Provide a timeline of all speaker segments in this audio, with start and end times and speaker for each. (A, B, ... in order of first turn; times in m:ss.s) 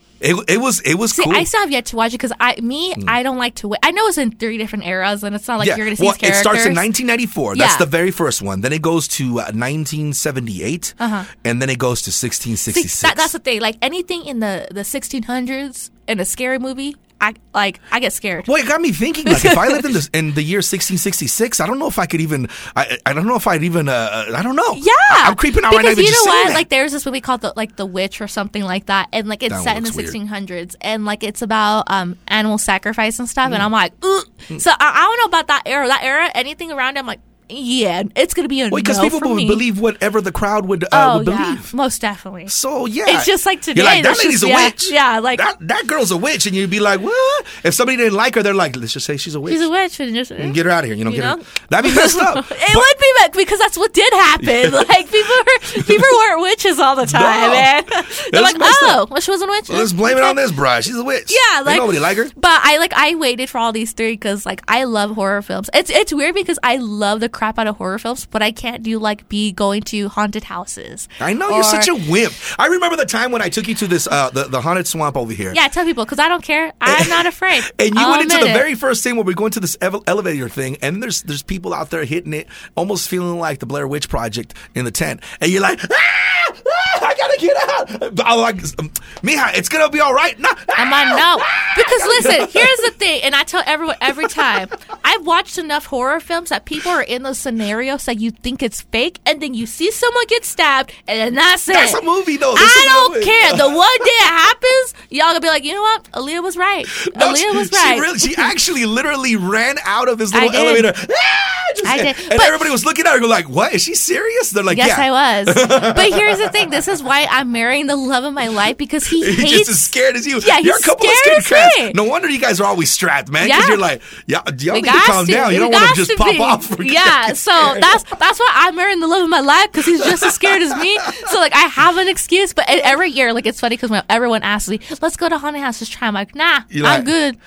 0:00.2-0:01.5 A
0:01.1-0:06.8 B
0:05.6-0:13.3 A
0:07.5-0:07.9 B
0:11.0-0:11.3 B
0:12.7-0:18.6 B
0:18.5-0:26.7 A
0:19.2-0:19.9 B
0:24.7-0:39.6 B
0:29.5-0:30.2 A
0:38.7-0:41.7 A
0:40.9-0:42.5 B
0:42.5-0:49.7 A
0:43.0-0:45.5 B
0:49.4-1:00.4 B
0:50.4-0:52.9 A
0:54.4-0:54.9 A
0:55.8-0:56.2 A
0:57.0-0:59.0 A
0:59.7-1:02.3 A
1:01.3-1:11.9 B
1:11.2-1:15.6 A
1:15.5-1:18.7 B
1:16.9-1:32.9 A
1:30.8-1:42.0 B
1:34.1-1:34.5 A
1:41.7-1:44.1 A
1:42.5-1:48.5 B
1:47.0-1:56.8 A
1:50.3-1:50.9 B
1:51.8-1:52.7 B
1:54.7-2:02.0 B
1:59.1-2:07.9 A
2:03.4-2:03.8 B
2:04.7-2:17.4 B
2:10.0-2:11.3 A
2:16.7-2:17.1 A